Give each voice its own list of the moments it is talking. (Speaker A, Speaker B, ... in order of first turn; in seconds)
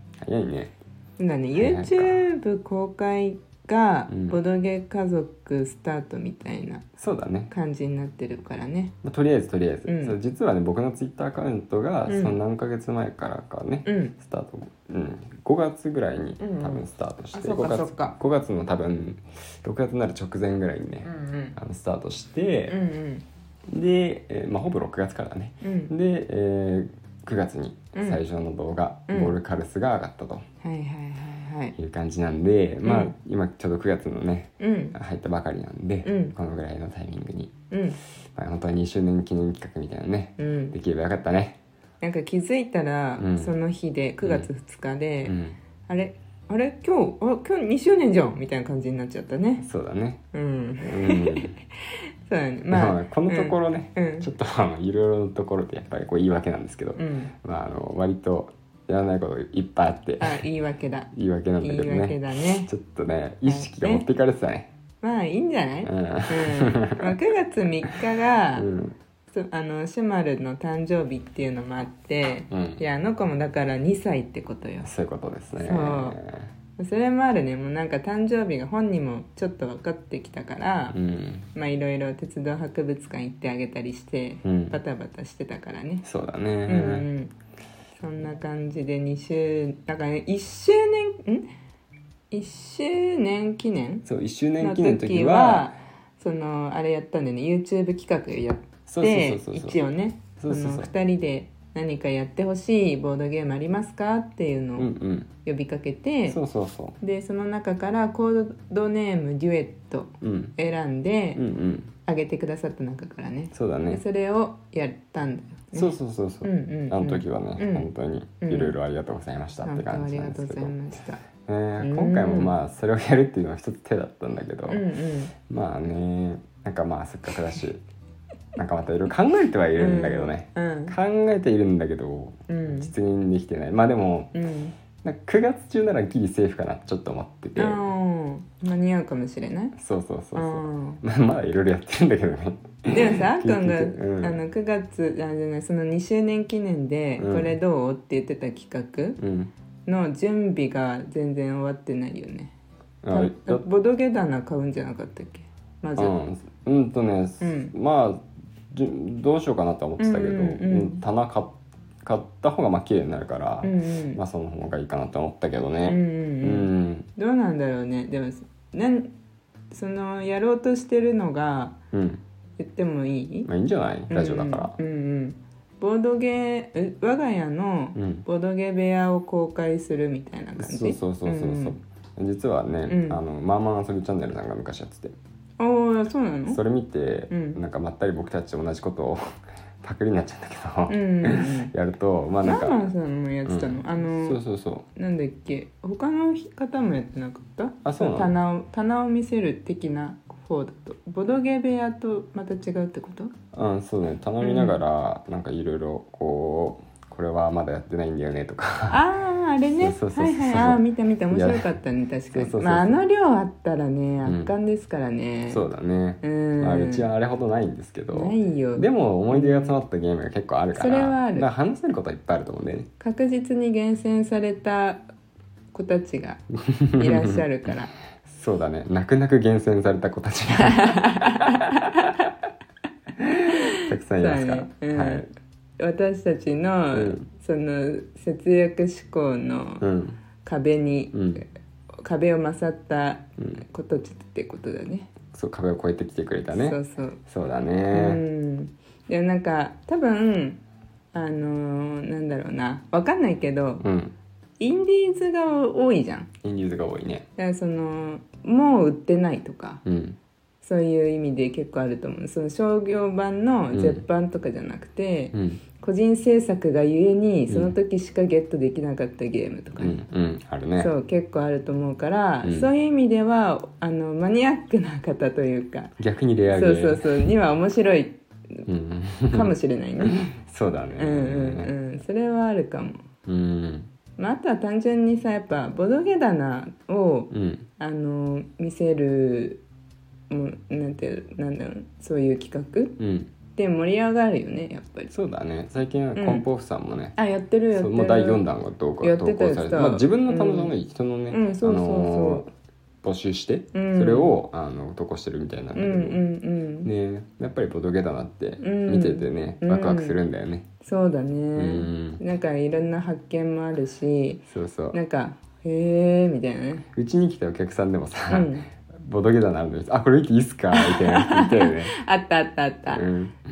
Speaker A: 0.2-0.7, 1.6-2.2, 4.1-4.4, 7.0-7.5, 9.0-22.8, 23.7-30.4, 31.8-37.5, 38.4-41.6, 43.2-43.5, 44.2-44.5, 45.2-45.6, 49.6-50.2, 50.8-51.5, 52.7-60.4, 61.1-64.7, 65.8-67.1, 68.6-69.0, 72.5-72.8, 74.8-76.5, 80.9-81.5, 84.4-84.8, 86.0-87.1, 94.0-95.7, 98.9-99.8, 100.4-100.9, 104.8-105.3, 106.3-107.0, 110.2-110.5, 111.4-111.9, 113.5-114.0, 115.7-120.7, 121.5-124.8, 125.5-127.8, 128.6-134.3, 135.0-137.8, 139.8-144.4, 147.2-147.6, 149.2-149.5, 153.0-153.7, 156.0-167.1, 171.9-172.2, 173.5-174.8, 177.9-178.3, 180.6-185.1, 186.5-192.8, 193.4-194.9, 197.8-198.3, 203.5-209.0, 209.8-211.7, 212.3-213.0, 214.2-214.5, 215.5-222.9, 226.7-227.4, 228.2-231.5, 233.7-235.3, 236.9-237.2, 239.8-240.2, 241.1-241.4, 245.3-248.2, 253.8-254.1, 256.4-257.3, 259.9-260.2, 263.7-264.0, 265.3-265.6, 267.5-267.8, 269.8-270.9, 272.4-272.7, 276.0-277.2, 278.7-281.8, 283.3-283.9, 287.3-287.7, 293.0-293.3, 295.1-297.2, 297.7-302.5, 303.0-306.2, 306.9-310.7, 311.6-312.2, 314.5-315.0, 316.9-321.9, 322.9-323.4
Speaker B: 1.2-6.9, 7.5-8.9, 9.9-10.2, 12.1-12.4, 13.8-14.1, 16.4-18.2, 21.1-21.6, 22.7-23.2, 25.6-25.9, 27.9-28.2, 29.1-29.4, 30.6-31.8, 32.9-33.1, 34.6-35.0, 36.0-36.3, 37.7-38.0, 40.4-40.8, 42.0-49.6, 50.3-51.5, 52.3-54.3, 57.0-57.3, 60.2-61.1, 61.6-62.7, 63.5-64.1, 65.0-68.7, 69.3-74.9, 75.6-76.2, 76.8-81.0, 81.5-86.0, 86.7-87.3, 88.0-91.5, 92.3-94.0, 94.6-104.9, 105.4-106.4, 107.0-111.4, 112.1-117.9, 118.4-118.7, 119.6-121.2, 121.8-122.5, 124.7-125.3, 129.8-130.9, 132.5-132.9, 134.3-134.8, 137.6-139.8, 140.3-141.0, 142.9-149.2, 149.9-152.5, 153.1-156.1, 157.4-157.7, 160.0-161.0, 163.6-164.2, 165.9-169.1, 169.7-171.8, 172.6-173.5, 174.1-181.8, 182.9-183.2, 185.6-186.6, 187.3-187.6, 190.9-191.7, 192.4-194.4, 194.9-203.3, 204.4-204.8, 208.9-215.7, 216.2-217.1, 218.1-219.8, 220.7-221.5, 223.0-225.1, 225.7-226.4, 227.0-227.9, 230.6-232.1, 233.5-235.2, 235.8-239.8, 240.4-241.4, 242.0-245.1, 246.5-247.2, 247.9-250.6, 251.1-253.8, 254.6-256.3, 257.4-259.8, 260.6-270.0, 270.8-275.9, 276.5-278.6, 279.3-280.3, 281.0-283.1, 284.2-289.6, 290.3-293.0, 293.5-295.1, 296.2-296.4, 297.2-298.4, 299.0-300.7, 301.3-302.5, 303.7-304.4, 305.8-306.9, 308.6-310.2, 310.8-316.9, 318.3-318.7, 320.7-323.0